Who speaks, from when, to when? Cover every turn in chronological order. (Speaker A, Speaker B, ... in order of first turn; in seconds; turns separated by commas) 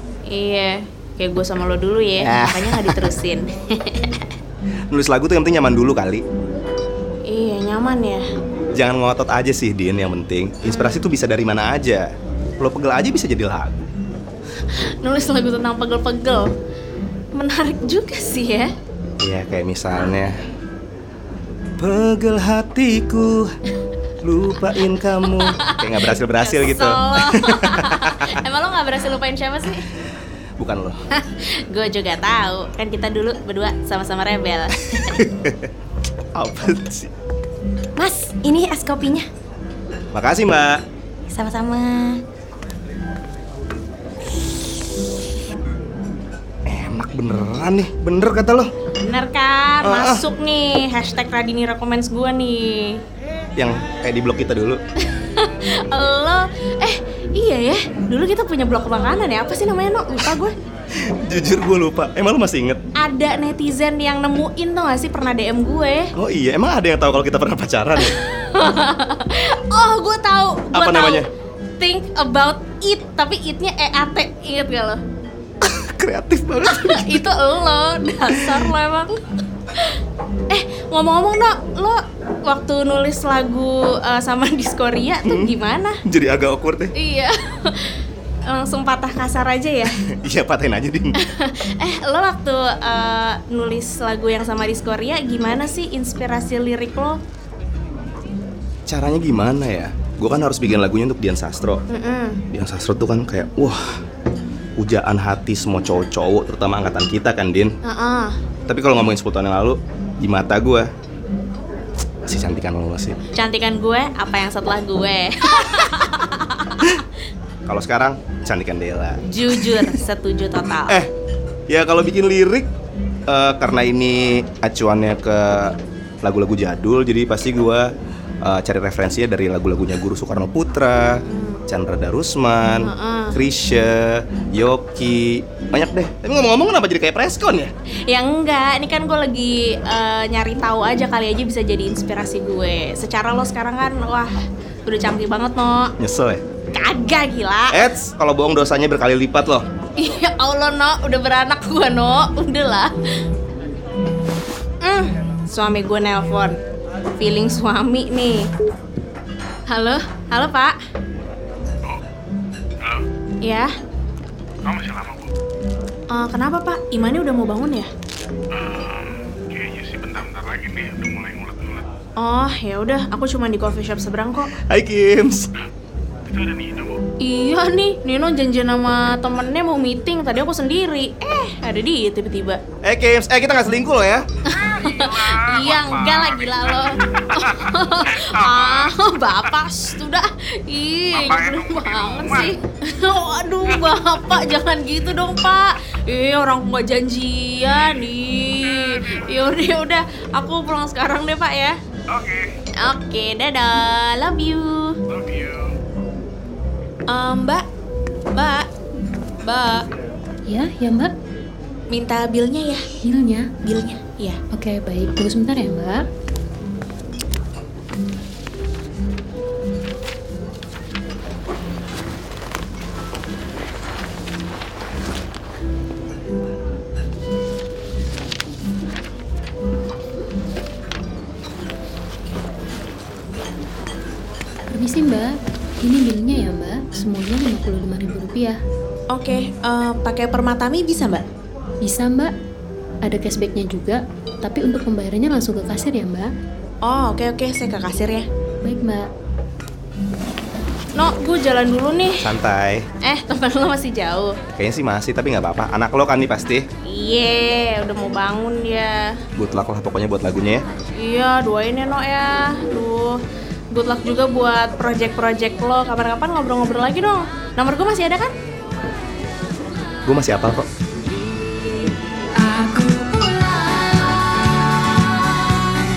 Speaker A: 0.3-4.3, Speaker B: 2.2-3.1, Speaker B: 4.9-6.2, Speaker A: 7.3-8.2, Speaker B: 8.8-13.9, Speaker A: 10.6-11.1, Speaker A: 14.7-16.5, Speaker A: 17.4-18.7, Speaker B: 19.2-20.4, Speaker B: 21.8-23.5, Speaker B: 24.2-28.3, Speaker A: 25.3-25.8, Speaker A: 26.4-29.9, Speaker B: 30.6-31.0, Speaker A: 31.1-35.1, Speaker B: 35.0-35.7, Speaker B: 36.4-37.1, Speaker C: 38.0-39.3, Speaker B: 40.1-40.8, Speaker C: 41.3-42.2, Speaker B: 46.7-48.7, Speaker A: 49.0-53.0, Speaker B: 49.8-50.2, Speaker B: 53.6-54.8, Speaker A: 55.1-60.5, Speaker B: 61.0-62.8, Speaker A: 63.0-66.1, Speaker B: 66.2-68.2, Speaker A: 68.0-71.2, Speaker B: 70.7-71.3, Speaker A: 71.8-75.0, Speaker B: 75.6-77.2, Speaker A: 76.7-79.2, Speaker B: 78.3-78.7, Speaker A: 79.7-80.0, Speaker A: 80.5-86.0, Speaker B: 85.2-85.5, Speaker B: 86.0-86.9, Speaker A: 87.0-89.9, Speaker B: 89.9-91.1, Speaker A: 91.2-97.2, Speaker B: 98.9-101.8, Speaker A: 101.9-102.4, Speaker B: 102.5-104.0, Speaker B: 104.8-107.8, Speaker A: 107.8-108.4, Speaker B: 108.7-110.9, Speaker B: 112.3-113.2, Speaker A: 113.3-117.0, Speaker B: 117.7-120.0, Speaker A: 119.3-121.0, Speaker B: 121.7-122.7, Speaker B: 123.3-127.9, Speaker B: 128.4-137.7, Speaker A: 131.3-131.6, Speaker A: 132.8-133.4, Speaker A: 138.1-144.3, Speaker A: 144.9-145.9, Speaker B: 146.0-146.4, Speaker A: 146.7-147.8, Speaker B: 147.7-149.7, Speaker A: 150.0-152.9, Speaker A: 154.8-156.6, Speaker A: 157.2-158.5, Speaker A: 159.7-160.7, Speaker A: 163.4-163.7, Speaker D: 164.7-165.3, Speaker A: 166.1-167.9, Speaker D: 168.5-171.9, Speaker A: 172.2-174.5, Speaker B: 174.7-175.5, Speaker D: 176.3-177.0, Speaker A: 177.2-182.6, Speaker B: 182.8-184.2, Speaker A: 184.5-201.8, Speaker D: 184.7-186.2, Speaker D: 192.0-192.5, Speaker D: 198.8-199.2, Speaker D: 202.1-202.5, Speaker A: 202.8-205.0, Speaker D: 205.2-205.6, Speaker A: 207.1-207.7, Speaker A: 208.3-208.7, Speaker A: 209.4-209.9, Speaker E: 210.5-211.1, Speaker A: 211.9-212.8, Speaker E: 213.0-213.5, Speaker A: 213.6-214.4, Speaker E: 214.5-216.0, Speaker E: 234.7-238.6, Speaker A: 239.1-241.2, Speaker E: 241.8-242.3, Speaker E: 243.0-246.3, Speaker A: 246.8-248.3, Speaker E: 248.6-249.1, Speaker A: 251.0-252.2, Speaker B: 252.2-252.9, Speaker A: 253.0-254.4, Speaker B: 254.6-256.7, Speaker A: 256.9-259.1, Speaker B: 259.4-260.6, Speaker A: 261.0-263.2, Speaker A: 263.7-268.3, Speaker B: 270.1-270.7, Speaker C: 272.4-275.1